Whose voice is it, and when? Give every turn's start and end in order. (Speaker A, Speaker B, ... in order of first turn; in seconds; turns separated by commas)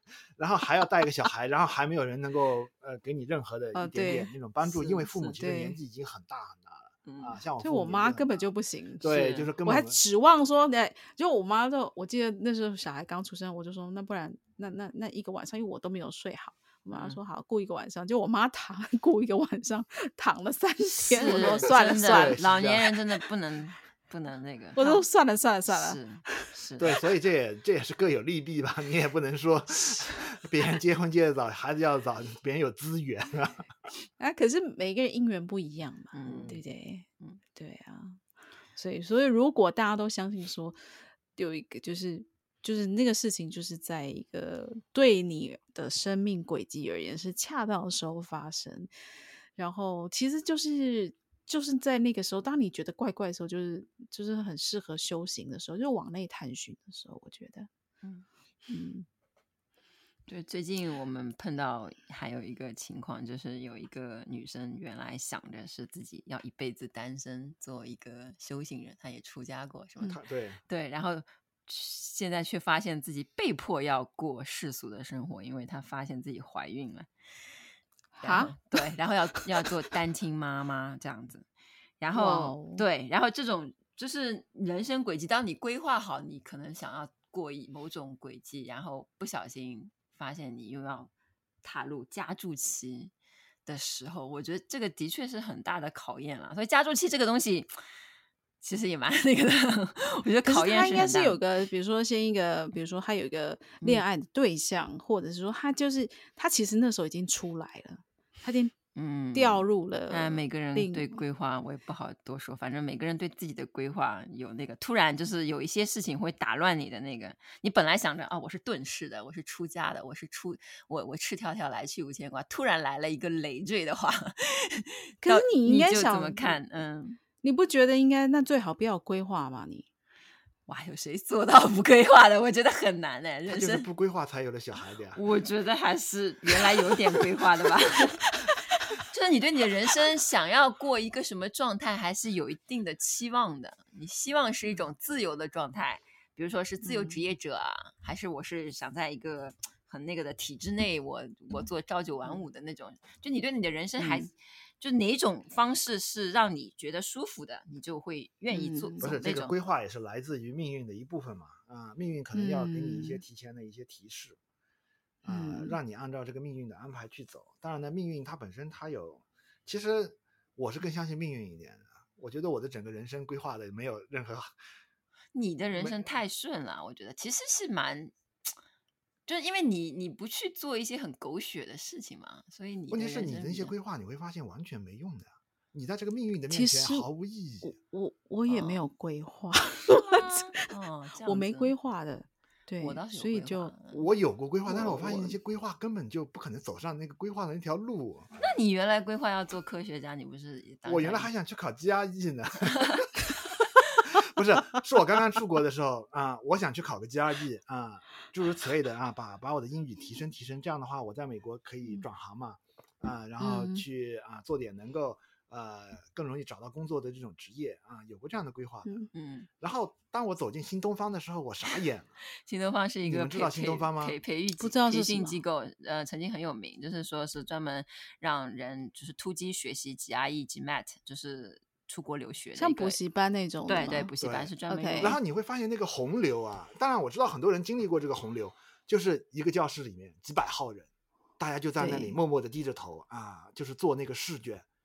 Speaker A: 0.4-8.5, Speaker B: 3.8-5.8, Speaker C: 5.0-5.4, Speaker C: 7.0-7.4, Speaker B: 7.6-22.5, Speaker A: 9.0-10.0, Speaker C: 16.9-17.2, Speaker C: 20.8-25.1, Speaker A: 21.2-22.9, Speaker B: 24.8-26.5, Speaker C: 25.7-26.9, Speaker A: 26.8-33.7, Speaker B: 34.2-38.2, Speaker C: 36.1-36.6, Speaker B: 38.8-40.8, Speaker B: 41.4-48.9, Speaker B: 49.6-57.7, Speaker B: 58.7-59.1, Speaker C: 60.3-77.1, Speaker A: 70.1-70.6, Speaker B: 78.2-78.7, Speaker C: 78.2-81.5, Speaker C: 82.0-91.1, Speaker B: 82.1-82.8, Speaker C: 91.6-93.1, Speaker C: 93.7-97.7, Speaker C: 98.6-101.4, Speaker B: 100.4-108.7, Speaker C: 109.0-127.2, Speaker B: 109.3-111.2, Speaker B: 125.2-126.6, Speaker B: 127.4-129.9, Speaker C: 130.7-133.9, Speaker A: 133.5-135.2, Speaker C: 135.2-138.2, Speaker C: 139.1-159.5, Speaker B: 146.8-147.2, Speaker B: 154.0-154.3, Speaker B: 158.5-159.2, Speaker A: 159.0-164.4, Speaker B: 162.3-163.2, Speaker A: 165.2-174.5, Speaker B: 165.3-165.8, Speaker C: 175.3-178.1, Speaker A: 175.7-176.2, Speaker C: 179.3-183.7, Speaker A: 182.9-187.8, Speaker B: 186.5-187.1, Speaker B: 187.6-190.7, Speaker C: 188.5-188.8, Speaker C: 189.9-191.7, Speaker B: 191.2-193.7, Speaker C: 192.8-194.0, Speaker A: 193.9-198.3, Speaker B: 194.7-195.3, Speaker C: 198.4-201.3, Speaker A: 200.8-203.1, Speaker C: 202.7-203.0, Speaker A: 204.1-219.1, Speaker B: 213.4-213.8, Speaker C: 219.1-219.5, Speaker A: 219.6-222.2, Speaker C: 222.4-233.0, Speaker A: 223.1-224.2, Speaker B: 224.6-225.4, Speaker B: 232.6-234.1, Speaker C: 233.7-235.2, Speaker A: 234.2-244.7, Speaker B: 234.7-235.2, Speaker B: 241.8-242.2